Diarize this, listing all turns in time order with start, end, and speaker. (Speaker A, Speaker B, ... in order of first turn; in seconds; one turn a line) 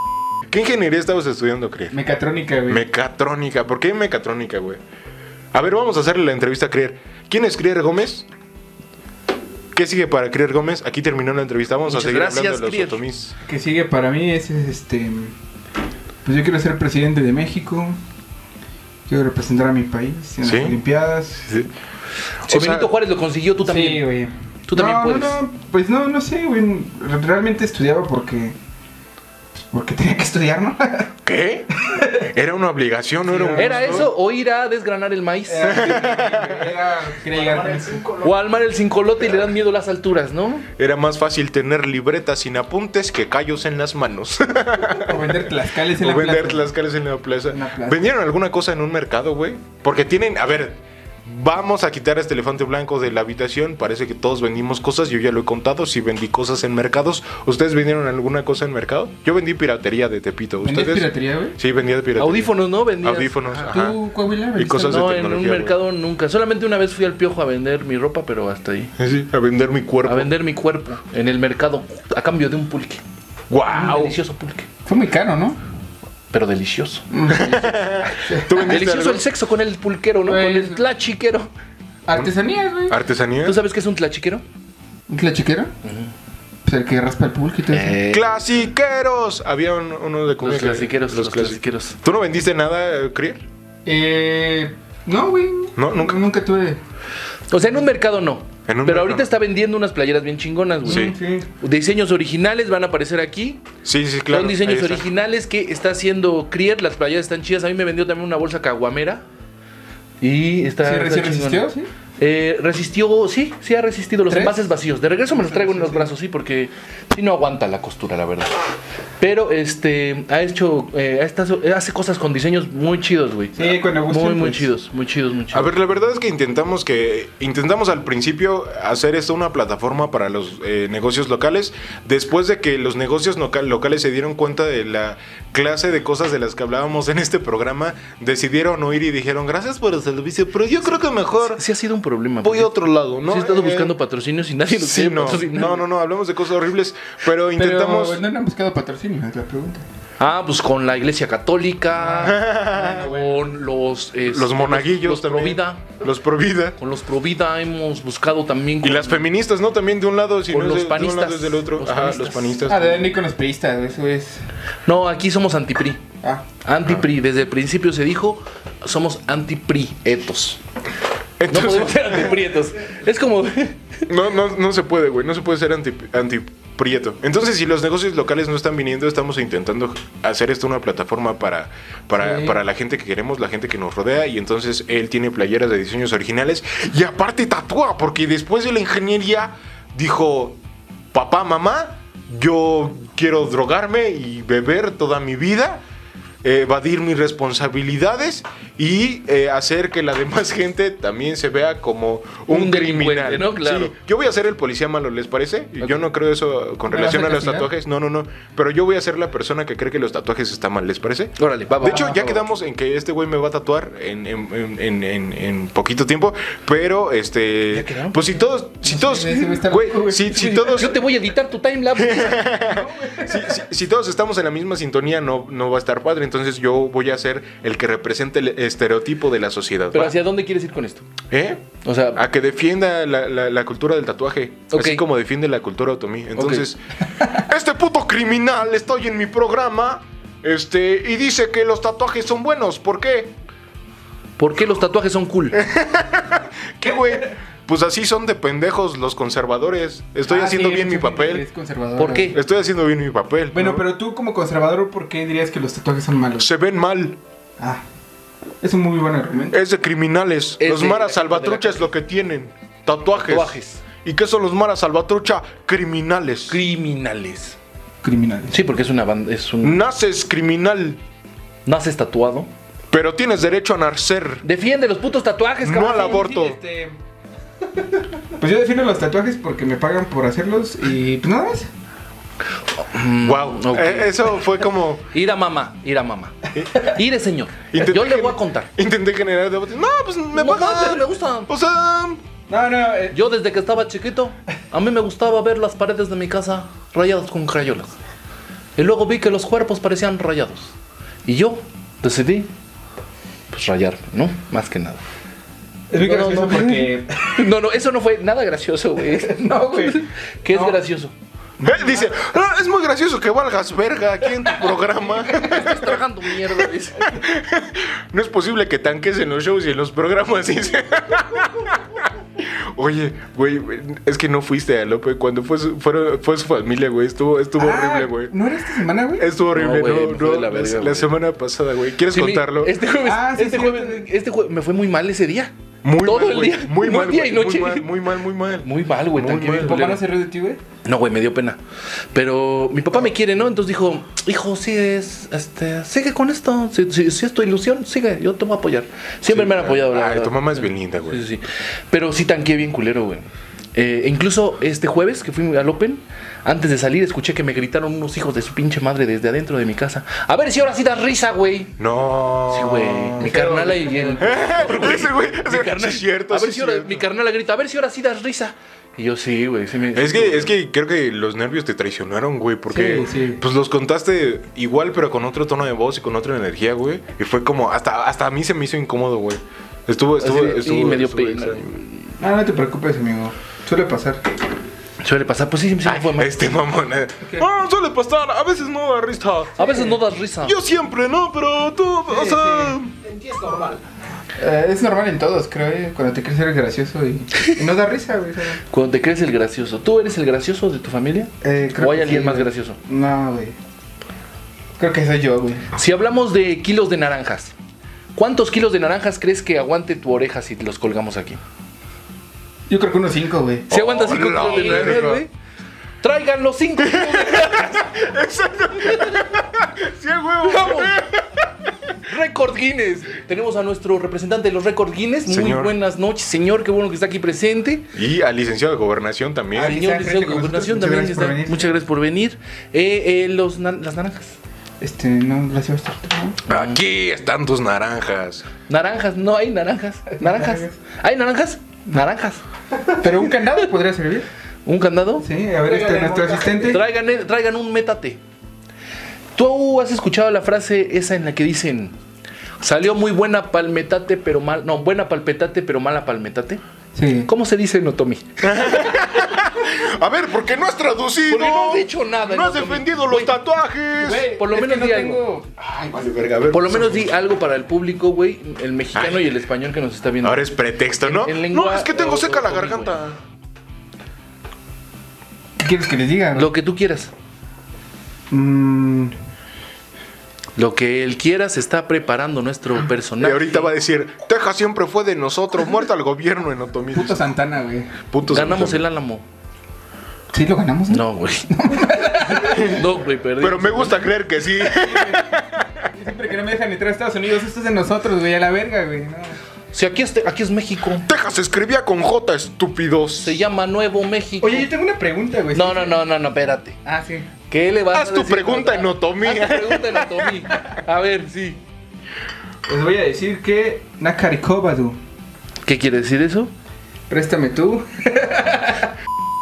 Speaker A: 0.5-1.9
Speaker B: 1.9-2.8
Speaker A: 2.7-4.8
Speaker A: 5.5-8.3
Speaker A: 9.7-13.3
Speaker C: 11.9-13.0
Speaker B: 13.5-15.3
Speaker B: 16.2-18.0
Speaker B: 19.1-21.5
Speaker A: 20.4-20.8
Speaker A: 22.5-22.9
Speaker C: 22.5-24.1
Speaker B: 23.6-28.6
Speaker C: 24.7-25.4
Speaker B: 29.7-31.1
Speaker A: 31.2-34.1
Speaker B: 31.8-32.3
Speaker B: 33.3-34.1
Speaker C: 33.6-35.9
Speaker B: 35.5-38.2
Speaker A: 35.6-36.7
Speaker C: 38.2-40.7
Speaker A: 40.8-64.0
Speaker B: 45.0-46.7
Speaker B: 47.5-48.1
Speaker B: 60.6-61.6
Speaker C: 62.2-63.7
Speaker B: 63.7-65.0
Speaker A: 64.5-65.8
Speaker C: 64.8-68.9
Speaker A: 69.0-70.3
Speaker C: 70.0-73.0
Speaker A: 73.5-74.2
Speaker C: 73.7-74.7
Speaker B: 74.9-75.6
Speaker C: 76.3-77.1
Speaker B: 77.1-78.7
Speaker A: 77.3-79.2
Speaker C: 78.1-81.5
Speaker B: 80.3-80.8
Speaker B: 82.1-83.0
Speaker A: 82.9-83.6
Speaker C: 83.4-84.4
Speaker B: 85.1-85.7
Speaker C: 85.8-86.1
Speaker B: 86.7-88.0
Speaker C: 87.7-88.3
Speaker A: 88.1-93.4
Speaker C: 90.4-92.0
Speaker B: 93.9-96.8
Speaker A: 95.8-96.2
Speaker C: 97.5-103.6
Speaker A: 98.7-99.3
Speaker B: 100.8-101.5
Speaker A: 100.9-101.1
Speaker A: 103.8-105.1
Speaker C: 104.3-109.2
Speaker C: 110.2-111.7
Speaker B: 110.8-111.9
Speaker C: 112.2-118.5
Speaker B: 114.3-114.6
Speaker B: 115.3-116.1
Speaker C: 119.2-125.7
Speaker B: 123.6-124.7
Speaker A: 125.5-141.6
Speaker C: 141.4-145.8
Speaker A: 142.4-143.9
Speaker A: 144.7-148.2
Speaker B: 147.6-149.8
Speaker C: 150.2-156.0
Speaker B: 152.0-153.4
Speaker A: 152.2-153.1
Speaker A: 154.3-156.8
Speaker C: 156.8-159.3
Speaker A: 158.8-163.1
Speaker C: 160.5-162.6
Speaker B: 162.7-164.4
Speaker C: 164.9-166.0
Speaker C: 166.6-170.6
Speaker A: 171.4-172.3
Speaker C: 171.5-174.0
Speaker A: 174.1-190.6
Speaker B: 182.2-182.6
Speaker A: 191.1-195.8
Speaker A: 196.4-221.0
Speaker C: 202.5-203.9
Speaker B: 206.9-207.7
Speaker C: 211.4-212.2
Speaker B: 211.8-212.4
Speaker C: 217.7-218.4
Speaker B: 218.8-220.6
Speaker C: 220.2-222.6
Speaker A: 221.9-230.2
Speaker B: 222.7-223.6
Speaker C: 229.9-231.1
Speaker A: 231.3-243.3
Speaker C: 231.8-232.2
Speaker C: 234.7-235.0
Speaker C: 236.4-236.7
Speaker C: 244.4-245.6
Speaker A: 245.5-251.4
Speaker B: 250.3-252.4
Speaker C: 252.0-252.4
Speaker A: 252.3-253.9
Speaker B: 253.5-256.5
Speaker A: 256.4-257.2
Speaker B: 258.6-259.6
Speaker A: 259.5-266.6
Speaker C: 260.6-261.9
Speaker C: 263.1-263.8
Speaker C: 266.5-267.6
Speaker B: 268.0-268.6
Speaker C: 268.5-269.8
Speaker A: 269.6-271.0
Speaker C: 271.7-272.5
Speaker A: 272.9-274.4
Speaker C: 274.4-276.5
Speaker A: 275.6-276.6
Speaker B: 275.8-277.0
Speaker B: 278.4-281.7
Speaker C: 282.8-284.3
Speaker A: 283.2-285.1
Speaker C: 285.1-288.7
Speaker A: 286.5-286.9
Speaker A: 287.7-292.2
Speaker C: 290.3-291.5
Speaker B: 292.5-293.2
Speaker C: 293.1-297.9
Speaker C: 298.8-300.7
Speaker C: 301.3-302.5
Speaker C: 303.5-305.0
Speaker B: 305.9-307.4
Speaker C: 306.0-311.1
Speaker B: 309.1-310.8
Speaker A: 311.6-328.3
Speaker C: 315.2-317.2
Speaker B: 327.6-329.3
Speaker A: 329.2-332.8
Speaker C: 329.5-331.1
Speaker C: 332.1-337.9
Speaker B: 333.0-334.1
Speaker A: 335.8-339.8
Speaker C: 338.6-340.1
Speaker B: 339.4-340.6
Speaker C: 340.8-341.6
Speaker C: 342.1-361.8
Speaker A: 349.3-351.2
Speaker A: 361.8-363.3
Speaker C: 362.5-370.5
Speaker B: 363.2-364.6
Speaker A: 364.2-367.1
Speaker A: 369.9-381.7
Speaker B: 372.7-373.4
Speaker C: 380.2-382.1
Speaker B: 382.2-384.2
Speaker C: 385.0-386.5
Speaker A: 385.8-389.7
Speaker C: 389.6-390.6
Speaker A: 390.4-393.6
Speaker B: 392.1-392.8
Speaker B: 394.4-398.6
Speaker C: 398.7-402.8
Speaker B: 401.4-403.6
Speaker B: 404.8-405.7
Speaker C: 405.8-407.5
Speaker C: 408.2-411.4
Speaker B: 412.7-413.7
Speaker A: 413.7-415.2
Speaker C: 413.7-415.3
Speaker B: 414.4-415.0
Speaker C: 416.0-418.1
Speaker A: 416.8-421.3
Speaker C: 418.8-419.3
Speaker C: 420.4-421.0
Speaker C: 422.0-427.8
Speaker A: 425.3-425.7
Speaker A: 427.9-429.8
Speaker B: 429.6-431.7
Speaker C: 429.6-434.4
Speaker B: 434.8-436.4
Speaker A: 436.5-438.5
Speaker C: 436.5-436.8
Speaker C: 438.7-442.4
Speaker B: 440.2-440.8
Speaker B: 442.9-444.3
Speaker C: 444.7-448.2
Speaker B: 445.2-446.8
Speaker C: 449.4-451.9
Speaker C: 452.6-456.6
Speaker B: 456.9-457.3
Speaker C: 457.3-458.4
Speaker A: 458.4-464.3
Speaker C: 461.3-463.4
Speaker B: 464.0-466.4
Speaker C: 464.1-465.2
Speaker A: 465.9-467.1
Speaker C: 466.5-473.0
Speaker A: 468.9-469.3
Speaker A: 470.2-473.2
Speaker B: 475.6-476.5
Speaker C: 476.4-477.1
Speaker B: 478.3-479.1
Speaker C: 480.6-483.7
Speaker A: 483.2-487.2
Speaker B: 486.9-487.9
Speaker A: 488.1-488.8
Speaker C: 488.3-489.2
Speaker B: 490.3-492.8
Speaker C: 490.9-491.5
Speaker C: 492.1-494.1
Speaker A: 493.4-495.9
Speaker B: 494.6-499.4
Speaker C: 499.7-501.1
Speaker A: 501.1-503.4
Speaker C: 503.2-504.7
Speaker B: 504.4-506.0
Speaker C: 505.5-506.8
Speaker B: 506.9-507.3
Speaker C: 507.5-511.6
Speaker A: 507.9-510.4
Speaker B: 512.7-515.0
Speaker C: 515.6-516.5
Speaker B: 517.1-518.9